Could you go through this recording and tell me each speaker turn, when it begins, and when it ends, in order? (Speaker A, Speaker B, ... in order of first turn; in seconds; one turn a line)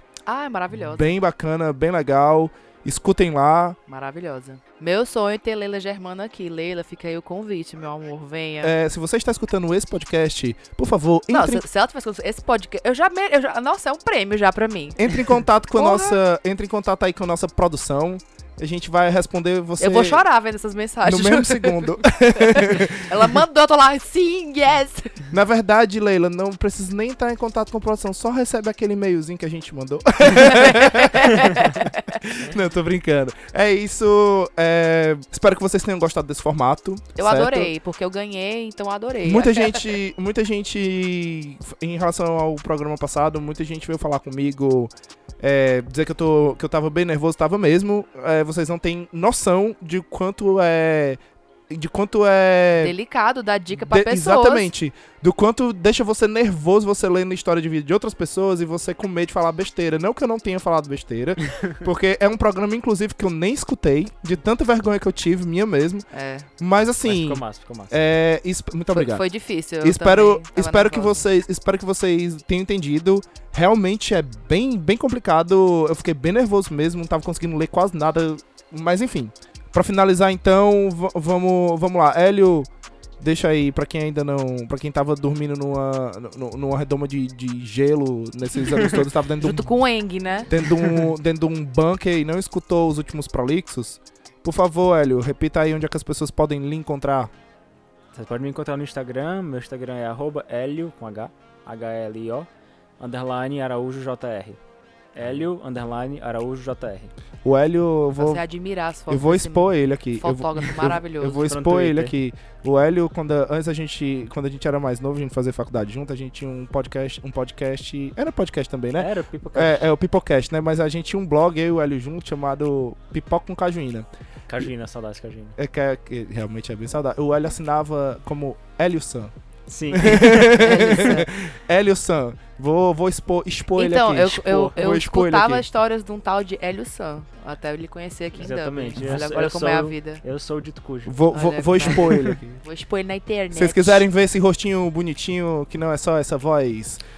Speaker A: 0.3-1.1
Speaker B: 0.9-3.8
Speaker A: 3.9-8.7
Speaker B: 8.6-11.6
Speaker A: 11.3-15.2
Speaker B: 15.0-20.2
Speaker A: 15.7-16.2
Speaker A: 19.8-25.2
Speaker B: 21.0-23.1
Speaker B: 25.3-37.7
Speaker A: 30.3-32.2
Speaker A: 37.2-39.9
Speaker B: 39.2-52.9
Speaker A: 52.8-54.7
Speaker B: 53.8-66.1
Speaker C: 61.5-61.8
Speaker A: 66.1-66.5
Speaker B: 66.6-69.3
Speaker C: 67.0-68.0
Speaker A: 68.9-71.3
Speaker B: 69.8-82.7
Speaker B: 83.2-89.7
Speaker A: 89.4-90.5
Speaker B: 90.5-97.3
Speaker C: 98.1-102.5
Speaker C: 103.0-104.6
Speaker C: 105.1-107.1
Speaker B: 107.4-108.5
Speaker A: 108.2-111.4
Speaker B: 109.1-124.1
Speaker C: 111.2-112.2
Speaker C: 119.0-119.8
Speaker C: 124.5-125.6
Speaker B: 125.6-129.3
Speaker C: 129.7-130.6
Speaker B: 129.9-135.7
Speaker A: 130.5-131.3
Speaker A: 133.8-140.2
Speaker C: 138.4-141.2
Speaker B: 141.1-142.6
Speaker A: 141.3-144.1
Speaker C: 141.8-142.4
Speaker B: 143.5-147.0